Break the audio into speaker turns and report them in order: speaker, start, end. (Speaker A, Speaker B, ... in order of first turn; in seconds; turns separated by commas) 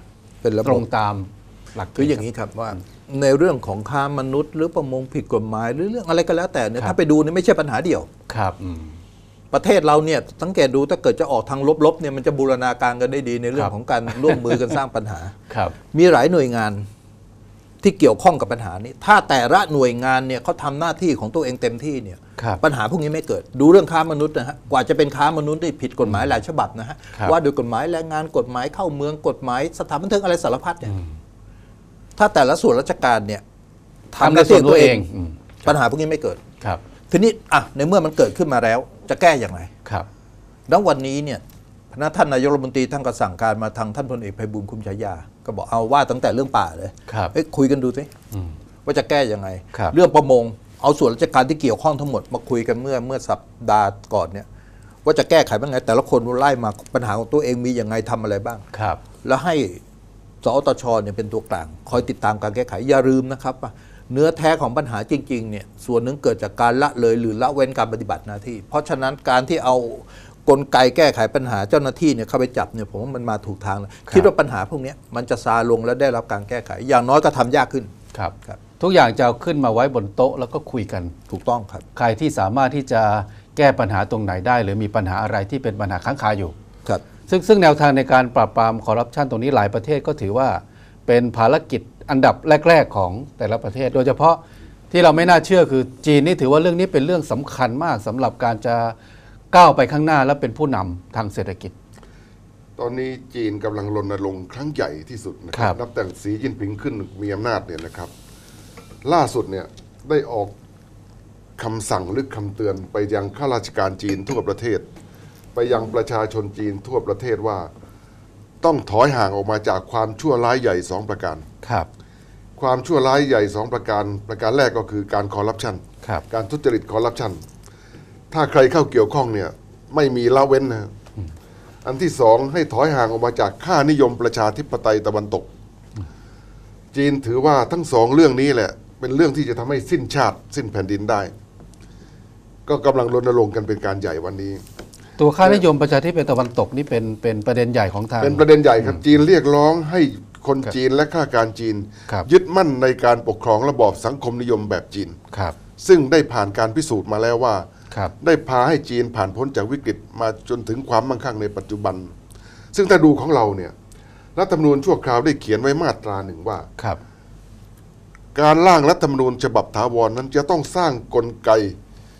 Speaker A: 0.4-0.8, Speaker B: 0.6-2.2, Speaker A: 1.9-8.1, Speaker B: 8.3-9.0, Speaker A: 9.5-16.9, Speaker B: 13.6-14.7, Speaker A: 17.8-30.9, Speaker A: 32.2-33.4, Speaker A: 34.1-35.0, Speaker B: 34.2-35.7, Speaker A: 35.6-36.4, Speaker A: 37.1-39.7, Speaker A: 40.7-48.1, Speaker B: 47.1-47.3, Speaker A: 48.8-54.5, Speaker A: 55.0-58.6, Speaker B: 58.7-59.0, Speaker A: 59.2-59.8, Speaker A: 60.4-77.9, Speaker B: 78.1-81.1, Speaker A: 81.3-81.8, Speaker B: 81.9-86.5, Speaker B: 87.3-94.4, Speaker B: 94.9-98.9, Speaker B: 99.5-101.7, Speaker C: 102.8-108.1, Speaker C: 109.0-110.5, Speaker C: 111.6-114.8, Speaker C: 115.5-117.7, Speaker C: 118.6-121.4, Speaker B: 121.6-121.9, Speaker C: 122.6-127.4, Speaker C: 128.3-130.9, Speaker C: 131.8-135.5, Speaker C: 136.9-141.3, Speaker C: 142.7-144.6, Speaker B: 145.2-149.0, Speaker C: 148.2-155.2, Speaker B: 155.3-155.6, Speaker C: 155.8-157.7, Speaker C: 158.2-162.1, Speaker C: 162.7-163.7, Speaker C: 164.3-166.7, Speaker C: 168.3-171.7